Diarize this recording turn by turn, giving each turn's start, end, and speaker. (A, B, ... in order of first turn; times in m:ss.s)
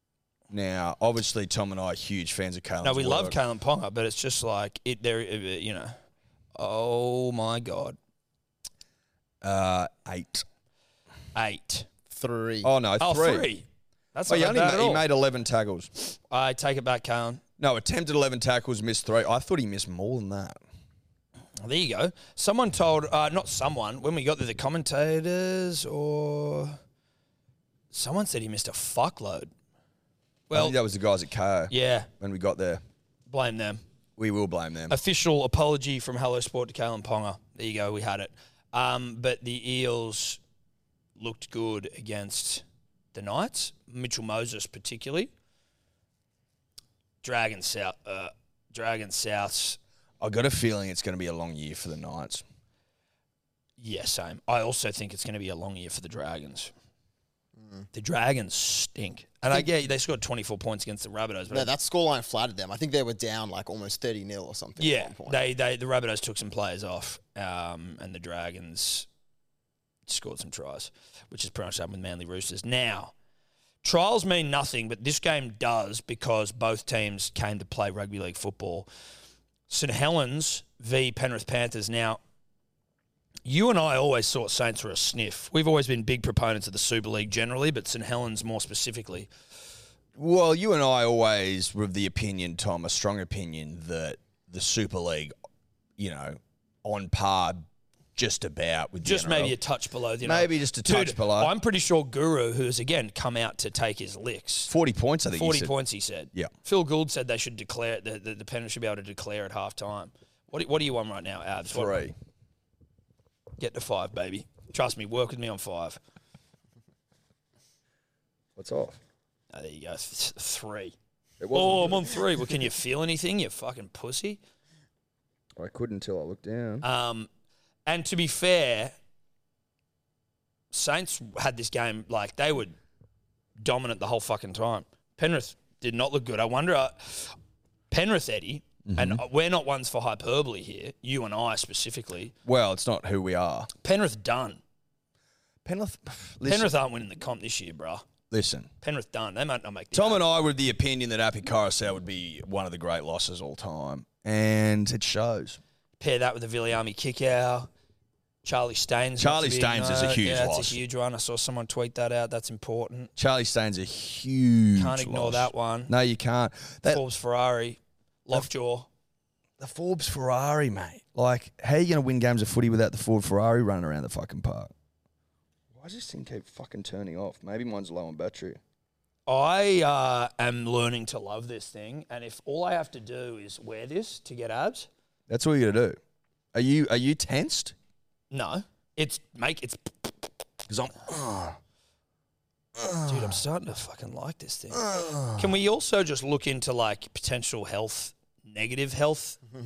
0:00.5-0:03.4 A
0:02.8-0:06.0 B
0:06.6-0:08.0 B
0:09.4-0:10.4 A
0:11.4-0:11.9 B
0:12.1-0:12.7 C
0:12.6-0:13.5 A
0:13.0-0:15.1 B
0:14.3-0:15.9 A
0:16.1-0:17.4 B
0:17.6-0:20.6 A
0:21.6-0:26.8 B
0:27.9-0:29.5 B
0:30.5-0:30.8 B
0:30.5-0:32.8 A
0:31.7-0:32.1 B
0:33.3-0:33.8 B
0:34.2-0:35.0 A
0:34.9-0:40.4 B
0:41.2-0:42.6 B
0:43.1-0:45.3 B
0:47.2-0:49.8 B
0:50.2-0:52.4 A
0:53.8-0:56.7 B
0:57.6-0:57.8 C
0:57.9-1:01.7 B
1:01.5-1:05.4 C
1:04.8-1:09.1 B
1:10.1-1:13.1 B
1:13.8-1:18.9 B
1:19.7-1:22.2 B
1:23.4-1:29.3 B
1:30.2-1:35.3 A
1:36.0-1:37.6 A
1:38.2-1:39.6 A
1:39.0-1:44.7 B
1:40.2-1:41.5 A
1:44.7-1:45.7 A
1:45.3-1:52.1 B
1:51.7-1:52.2 A
1:53.6-1:56.0 B
1:58.6-1:59.0 A
1:59.5-2:00.9 B
2:01.4-2:02.2 A
2:01.5-2:04.4 B
2:05.6-2:06.8 A
2:06.8-2:07.3 B
2:07.9-2:09.0 B
2:10.7-2:12.8 B
2:13.6-2:17.4 B
2:17.9-2:22.3 B
2:18.9-2:19.2 A
2:22.4-2:23.7 A
2:23.8-2:24.6 B
2:25.6-2:26.7 A
2:26.4-2:28.0 B
2:28.3-2:28.7 A
2:28.8-2:30.2 B
2:29.9-2:35.6 A
2:36.0-2:37.7 B
2:38.4-2:43.1 B
2:39.2-2:40.8 A
2:43.2-2:47.0 A
2:44.8-2:45.9 B
2:46.9-2:48.9 B
2:49.6-2:54.7 A
2:55.7-2:58.6 A
2:59.3-3:04.9 B
3:05.3-3:06.0 A
3:06.5-3:07.8 A
3:08.3-3:10.2 B
3:10.7-3:11.6 A
3:12.8-3:13.3 A
3:13.1-3:14.8 B
3:14.7-3:15.5 A
3:15.4-3:19.4 B